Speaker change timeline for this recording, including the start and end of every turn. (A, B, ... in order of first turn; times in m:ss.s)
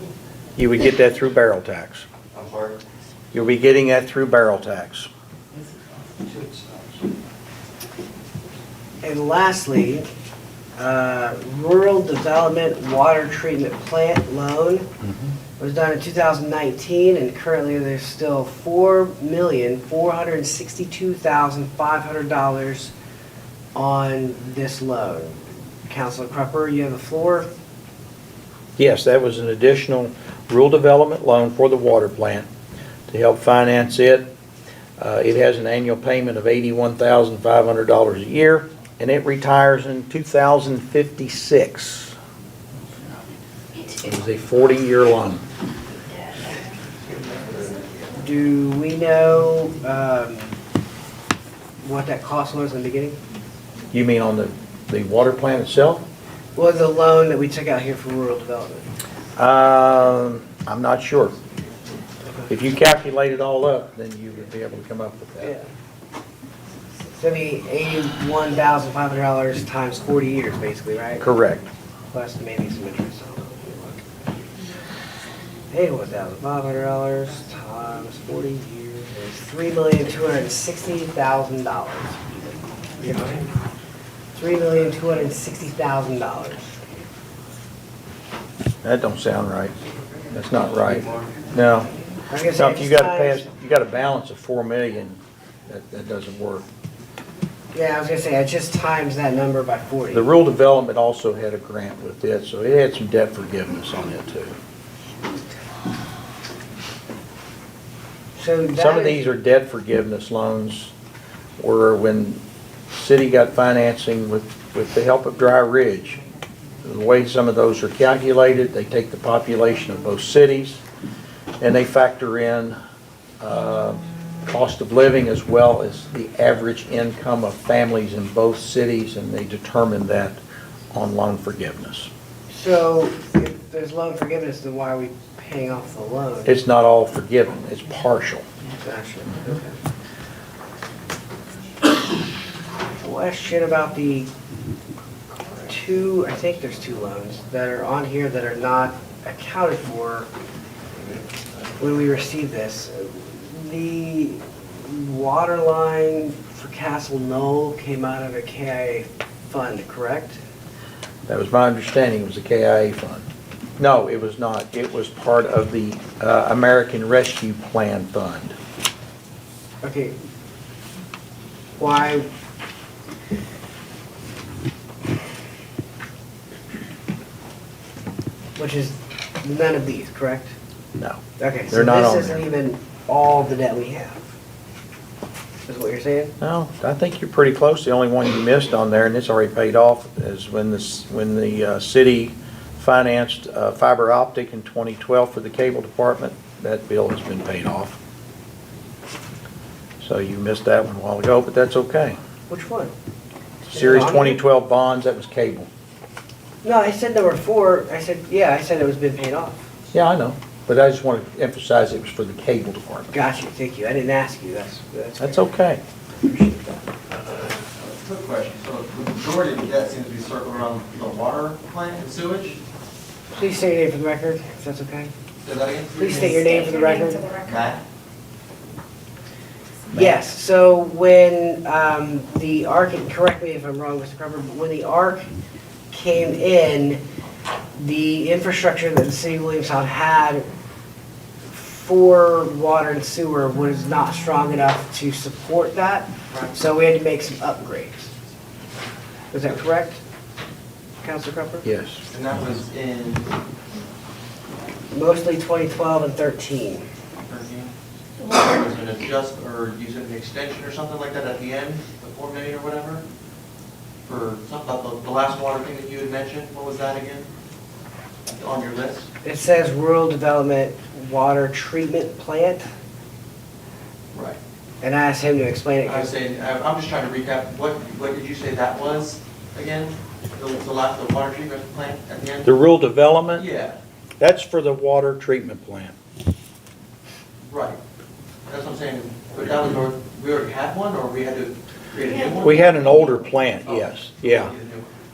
0:00.6-0:02.1 A
0:02.3-0:02.8 B
0:03.3-0:05.1 A
0:06.2-0:06.8 B
0:09.0-0:10.1 C
0:10.8-0:14.9 C
0:15.6-0:22.9 C
0:23.8-0:27.5 C
0:28.8-0:32.5 A
0:33.1-0:34.3 A
0:35.0-0:42.2 A
0:43.9-0:45.4 A
0:48.2-0:50.6 C
0:51.8-0:53.2 C
0:53.9-0:56.0 A
0:56.6-0:58.9 C
0:59.4-1:01.4 A
1:02.5-1:05.6 A
1:07.2-1:11.3 C
1:11.2-1:11.7 A
1:12.1-1:14.0 C
1:15.7-1:23.5 C
1:24.4-1:26.7 C
1:28.8-1:29.7 A
1:30.3-1:36.6 A
1:30.6-1:31.4 B
1:32.3-1:33.5 C
1:37.7-1:40.3 C
1:40.1-1:44.6 A
1:48.4-1:49.2 C
1:48.8-1:50.9 A
1:51.6-1:52.4 A
1:52.9-1:56.2 A
1:56.8-2:00.8 A
2:01.6-2:02.8 A
2:03.4-2:10.4 A
2:10.9-2:12.1 A
2:12.5-2:16.5 C
2:16.5-2:18.4 A
2:18.8-2:19.8 C
2:22.9-2:24.3 C
2:25.6-2:30.3 C
2:31.8-2:40.4 C
2:41.3-2:43.2 A
2:43.8-2:48.6 A
2:49.8-2:50.2 C
2:51.8-2:52.3 C
2:58.6-3:00.5 C
3:01.0-3:02.4 A
3:01.4-3:04.3 C
3:05.7-3:06.4 C
3:06.4-3:18.0 A
3:20.0-3:22.2 A
3:22.5-3:22.9 C
3:23.7-3:25.7 A
3:23.7-3:24.4 C
3:26.6-3:29.7 C
3:29.9-3:33.1 A
3:33.1-3:35.5 C
3:35.2-3:35.8 A
3:36.2-3:36.8 C
3:37.6-3:42.6 B
3:43.3-3:45.1 C
3:45.4-3:46.4 B
3:46.0-3:47.4 C
3:47.4-3:47.8 B
3:49.9-3:50.2 A
3:49.9-3:55.3 C
3:55.9-3:57.0 C
3:57.8-4:00.5 C
4:01.5-4:08.1 C
4:06.3-4:06.6 B
4:09.3-4:10.0 C
4:11.0-4:11.7 C
4:11.6-4:12.0 A
4:12.1-4:13.3 B
4:14.9-4:16.9 C
4:17.3-4:23.0 B
4:24.1-4:27.3 B
4:28.3-4:29.1 B
4:29.2-4:32.6 C
4:34.1-4:34.4 B
4:34.8-4:36.1 C
4:35.8-4:42.5 B
4:42.4-4:43.5 A
4:43.4-4:43.8 B
4:44.2-4:46.0 A
4:47.5-4:47.8 B
4:48.5-4:52.7 B
4:52.4-4:54.5 A
4:53.6-4:54.9 B